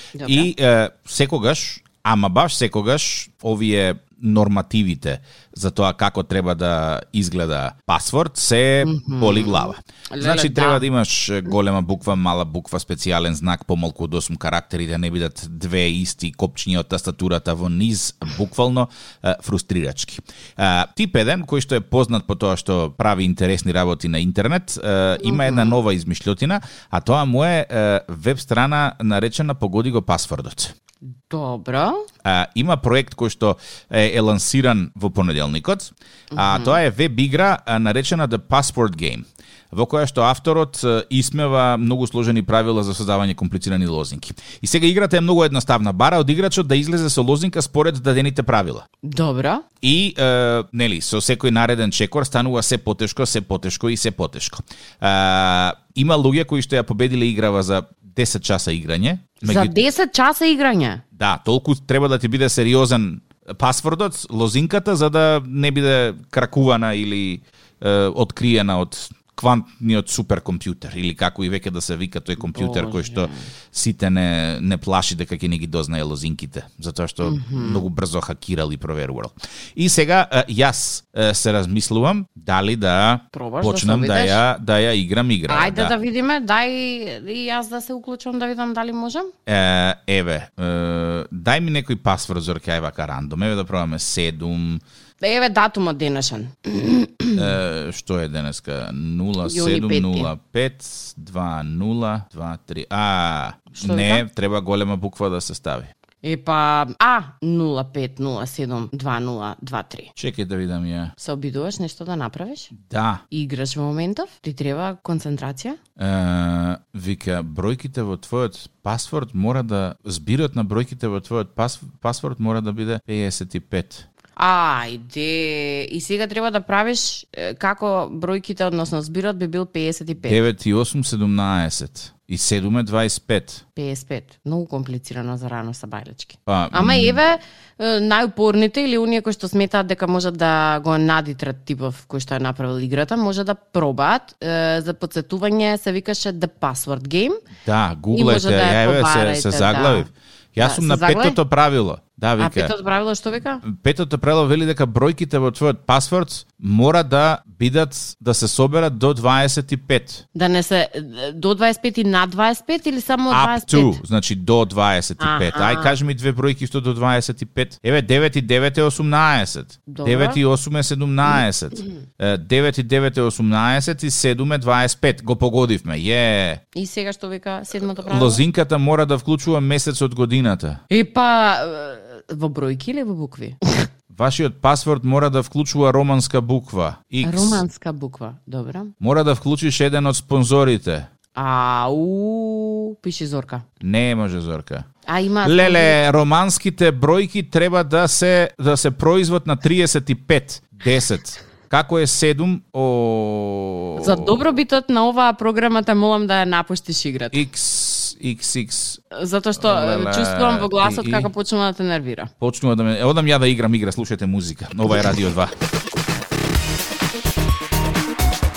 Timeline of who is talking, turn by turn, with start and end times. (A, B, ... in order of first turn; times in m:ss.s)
0:00.1-0:00.5 A
0:00.2-0:30.7 B
0:08.8-0:10.8 A
0:25.2-0:25.8 A
0:31.1-0:32.0 A
0:32.2-0:48.8 B
0:36.3-0:36.8 A
0:49.0-0:49.6 A
0:49.8-0:59.8 B
0:59.4-1:01.0 A
1:01.2-1:25.9 B
1:12.4-1:13.5 A
1:17.2-1:17.8 A
1:23.3-1:24.4 A
1:25.5-1:29.3 A
1:29.5-1:34.8 B
1:35.2-1:37.5 A
1:37.4-1:45.9 B
1:39.4-1:40.3 A
1:43.7-1:44.2 A
1:46.2-1:50.1 A
1:50.2-1:51.1 B
1:51.2-1:52.7 A
1:52.8-1:53.2 B
1:53.3-1:55.8 A
1:56.0-2:04.0 B
2:04.4-2:10.4 A
2:10.2-2:13.6 B
2:13.8-2:27.4 A
2:16.5-2:17.2 B
2:27.6-2:32.7 B
2:28.1-2:30.1 A
2:30.6-2:31.4 A
2:32.4-2:33.6 A
2:33.6-2:40.2 B
2:40.3-2:44.0 A
2:43.3-2:56.6 B
2:45.2-2:46.0 A
2:49.9-2:50.4 A
2:56.7-2:58.4 A
2:58.1-3:00.8 B
3:00.9-3:03.8 A
3:04.1-3:07.6 B
3:07.2-3:08.9 A
3:09.0-3:11.1 B
3:11.3-3:13.6 A
3:13.8-3:14.8 B
3:15.1-3:16.0 A
3:15.4-3:24.4 B
3:24.0-3:27.4 A
3:27.3-3:29.0 B
3:29.1-3:32.3 A
3:29.6-3:31.3 B
3:32.4-3:35.5 B